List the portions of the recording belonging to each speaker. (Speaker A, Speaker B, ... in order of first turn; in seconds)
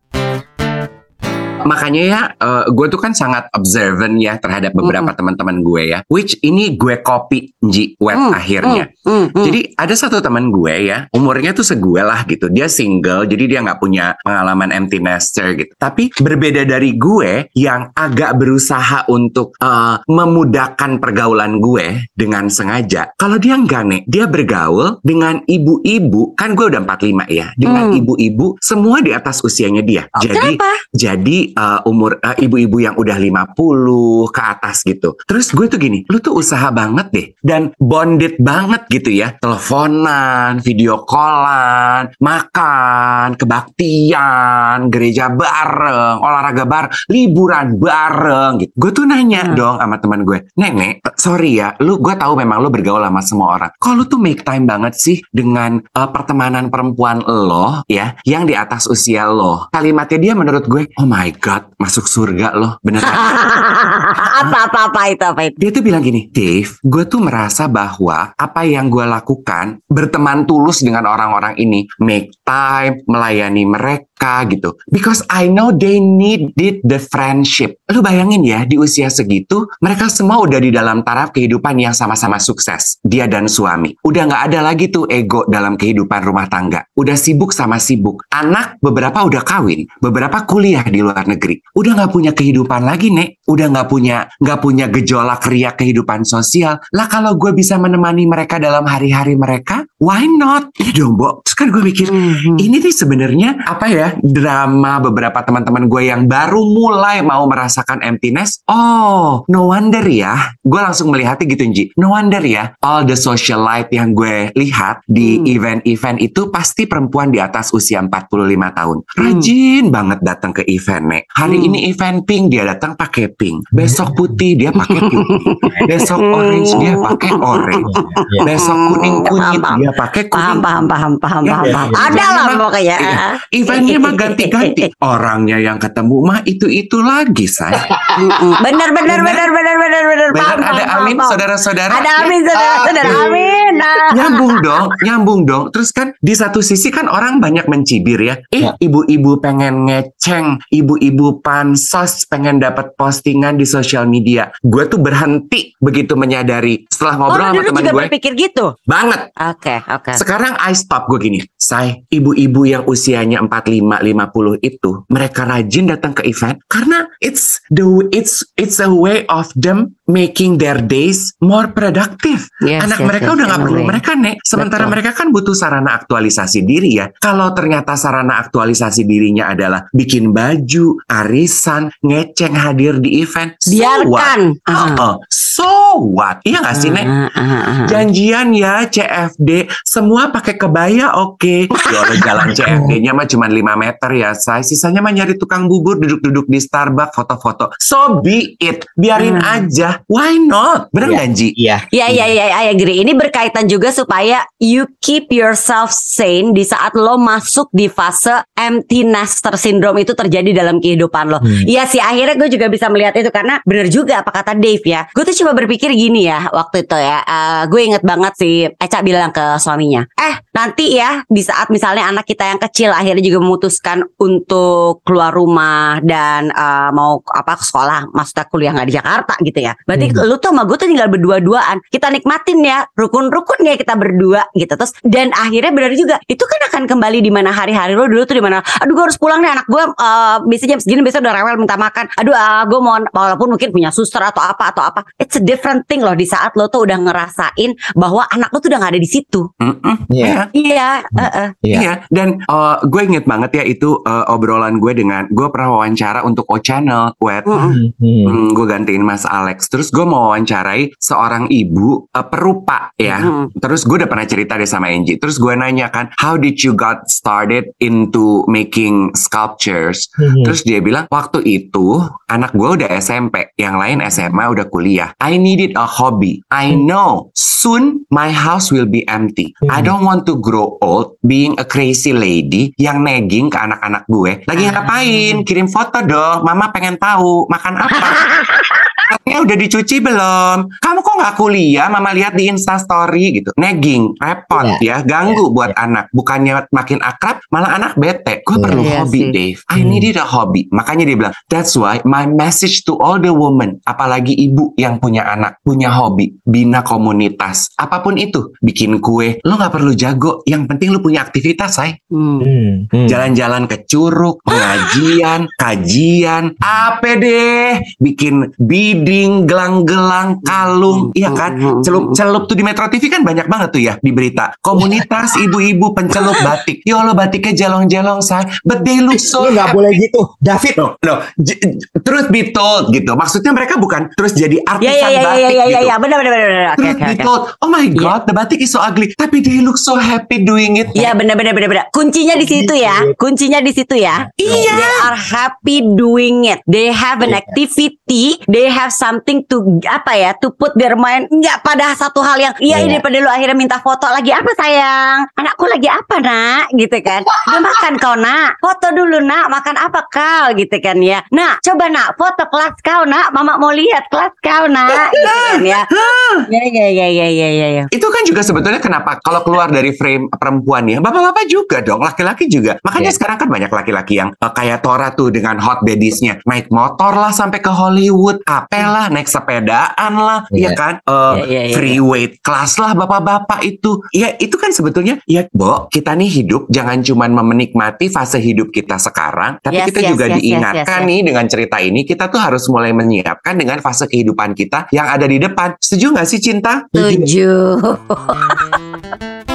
Speaker A: 1.6-8.9, 9.4-63.4, 65.6-127.9, 128.4-130.7, 131.4-137.9, 139.1-139.5, 140.3-142.3, 144.1-158.1, 158.9-159.3, 160.2-187.1, 187.9-201.5, 249.6-250.5, 251.7-257.6, 258.2-288.3, 289.1-312.0, 313.1-329.8, 330.8-335.9, 336.8-341.1, 344.4-345.1, 365.2-366.4, 367.9-396.9
Speaker B: 4.8-5.1, 8.1-9.6, 27.6-28.0, 30.2-30.8, 63.0-65.6, 102.0-102.7, 115.2-115.5, 119.2-119.5, 121.5-121.8, 124.8-134.8, 138.2-141.4, 141.9-144.6, 157.3-158.7, 159.4-160.2, 172.6-174.0, 174.6-174.9, 183.7-185.0, 186.7-188.0, 191.8-192.6, 199.2-199.6, 201.9-249.5, 250.5-251.5, 257.5-257.8, 263.1-263.5, 284.6-285.4, 288.1-288.8, 298.7-299.3, 312.1-312.5, 314.5-315.1, 320.9-322.2, 326.1-326.4, 334.8-337.3, 340.9-365.9, 366.5-367.9, 381.3-382.0, 389.7-391.1, 396.9-398.8
Speaker C: 123.8-124.3, 127.8-128.4, 131.6-132.2, 137.9-138.4, 142.5-143.8, 201.0-202.3, 211.4-211.7, 229.9-230.2, 250.1-250.4, 251.2-251.8, 257.5-258.4, 270.2-270.6, 279.7-279.9, 294.6-295.7, 298.6-298.9, 299.7-300.1, 312.4-313.3, 329.3-330.8, 342.4-343.1, 344.4-344.9, 347.2-347.6, 352.7-353.0, 396.9-397.3